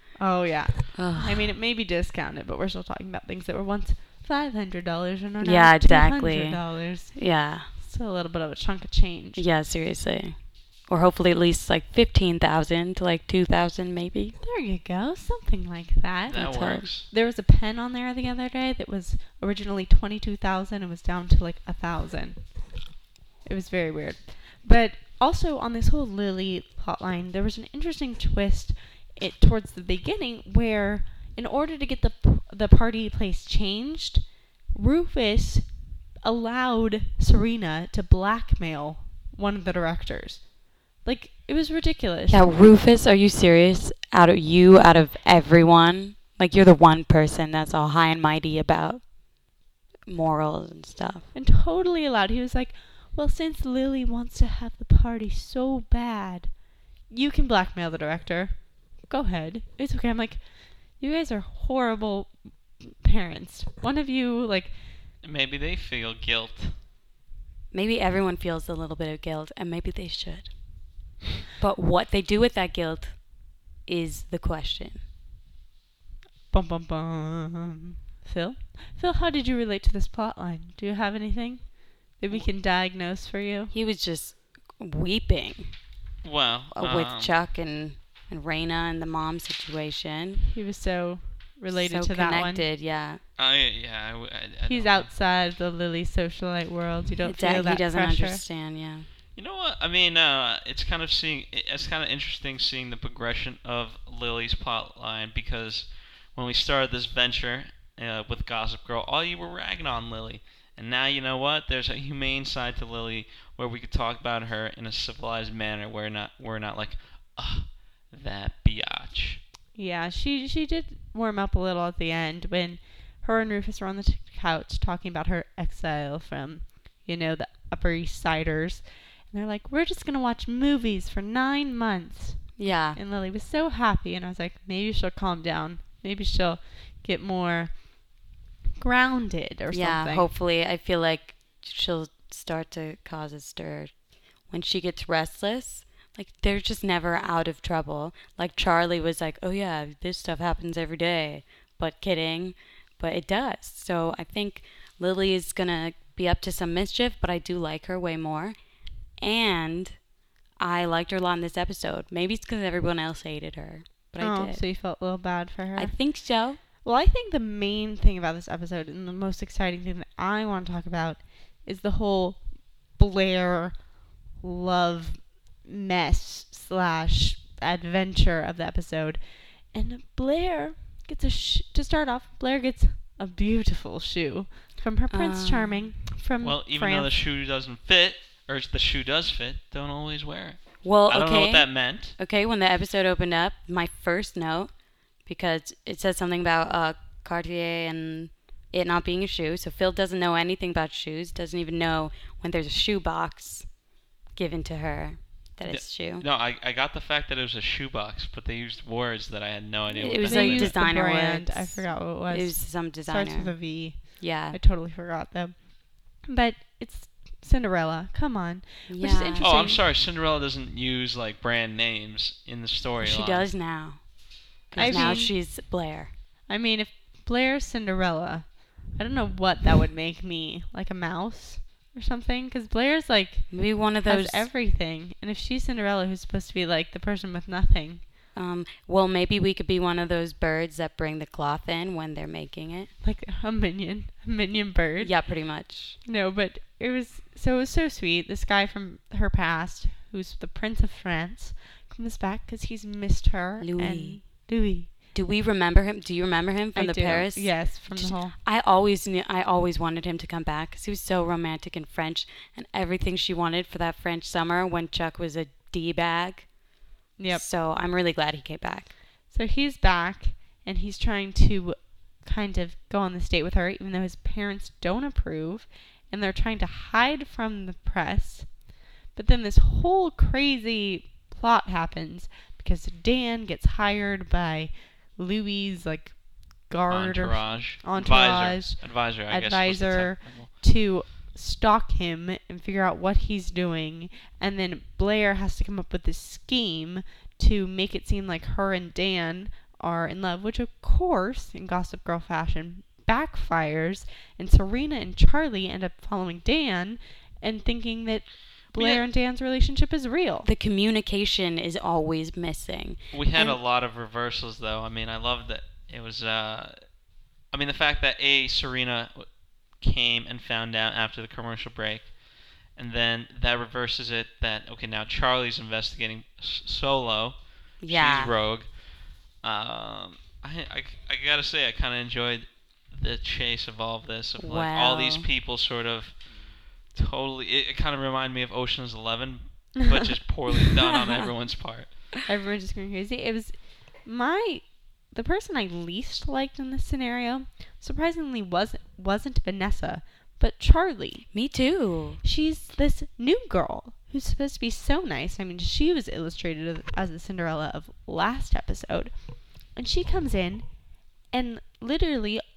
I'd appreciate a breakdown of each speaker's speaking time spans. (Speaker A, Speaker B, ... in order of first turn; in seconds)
Speaker A: 0.2-9.4, 14.4-22.7, 23.4-42.5, 51.3-64.8, 76.5-83.7, 90.5-92.6, 94.7-98.4, 119.7-138.2, 138.8-140.3, 164.2-166.0, 166.6-187.1, 210.2-219.8, 224.7-225.4, 226.5-238.0, 243.0-245.1, 246.0-254.9, 256.7-258.3, 267.2-267.4, 269.3-278.6, 279.1-310.5, 342.2-351.3, 352.2-360.7, 361.3-362.4
Speaker B: 0.9-1.4, 5.4-7.7, 9.4-10.3, 10.9-14.3, 16.4-16.9, 42.3-49.1, 50.0-51.2, 67.7-70.5, 71.6-75.0, 83.7-85.7, 86.7-90.4, 91.7-93.2, 97.2-99.1, 132.6-133.0, 139.7-143.9, 144.4-158.6, 159.2-160.0, 160.6-164.6, 165.8-166.6, 185.1-185.9, 190.8-194.7, 195.2-203.7, 204.3-206.2, 209.9-214.6, 218.9-219.5, 223.0-226.1, 233.5-234.5, 238.3-242.9, 245.0-246.0, 253.6-254.5, 255.1-266.5, 267.3-268.9, 310.4-313.0, 327.8-328.3, 334.4-335.3, 351.3-352.2
Speaker C: 16.3-17.1, 65.2-66.8, 86.2-87.3, 93.4-95.1, 99.3-119.4, 186.4-192.2, 205.6-210.7, 219.4-223.5, 224.7-225.3, 286.9-290.5, 308.7-309.0, 313.1-316.9, 317.5-342.1